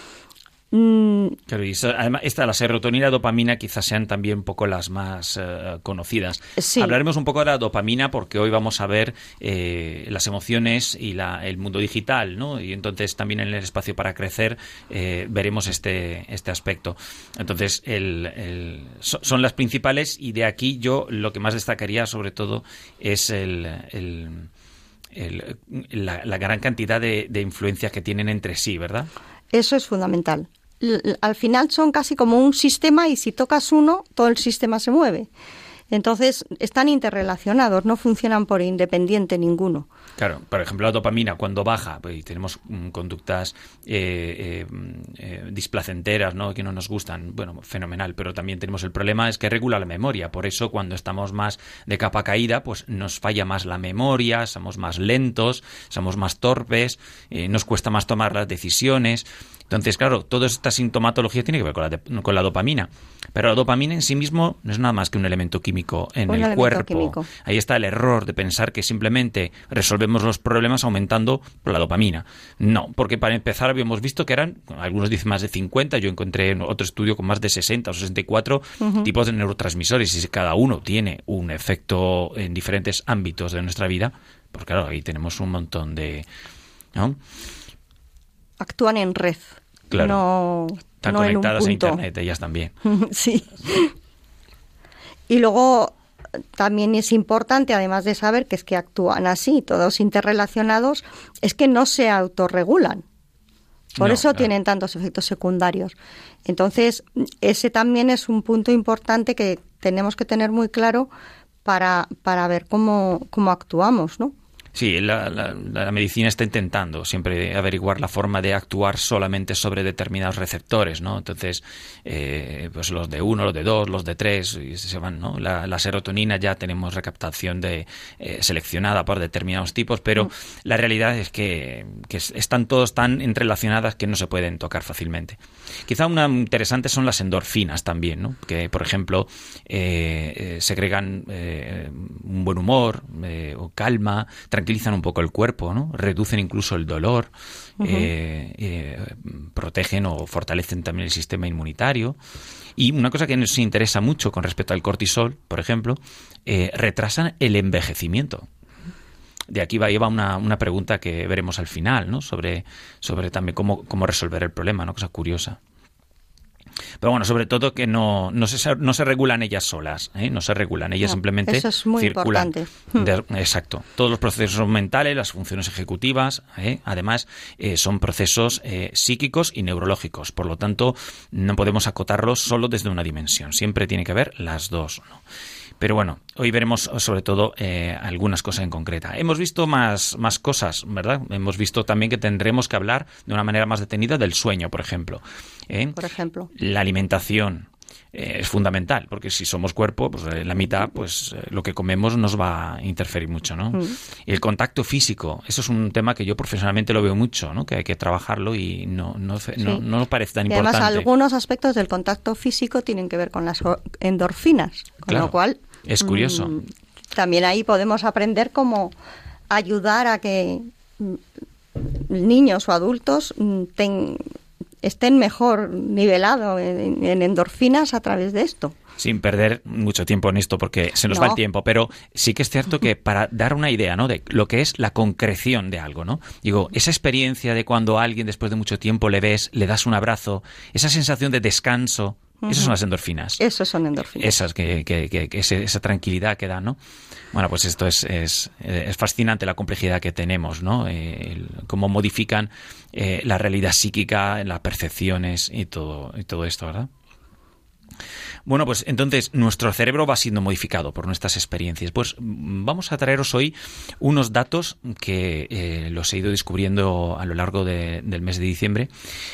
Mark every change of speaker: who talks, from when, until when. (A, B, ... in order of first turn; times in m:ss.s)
0:00.7-0:01.4 A
0:01.5-0:24.5 B
0:06.6-0:07.0 A
0:25.1-0:29.1 B
0:29.5-0:35.3 A
0:35.9-0:39.9 A
0:40.2-1:26.3 B
1:06.3-1:07.3 A
1:18.8-1:19.1 A
1:26.9-1:27.2 B
1:28.6-1:32.0 A
1:29.9-1:30.2 B
1:31.0-1:32.7 B
1:32.8-1:33.9 A
1:35.3-1:35.9 A
1:36.6-1:43.0 A
1:44.0-1:51.1 A
1:44.0-1:44.5 B
1:51.6-1:54.3 A
1:54.7-2:32.2 B
2:27.8-2:28.1 A
2:32.8-2:38.5 B
2:39.5-2:45.6 B
2:47.0-3:05.2 B
2:51.0-2:53.1 A
3:05.8-3:16.0 B
3:16.0-3:16.5 A
3:16.5-3:31.1 B
3:30.5-3:38.9 A
3:35.1-3:36.6 B
3:39.5-3:41.2 A
3:41.8-3:44.2 A
3:44.8-3:48.8 A
3:49.0-4:03.4 B
3:51.1-3:51.4 A
4:02.4-4:02.8 A
4:03.4-4:04.3 A
4:04.2-4:06.8 B
4:07.3-4:16.9 B
4:18.4-4:28.9 B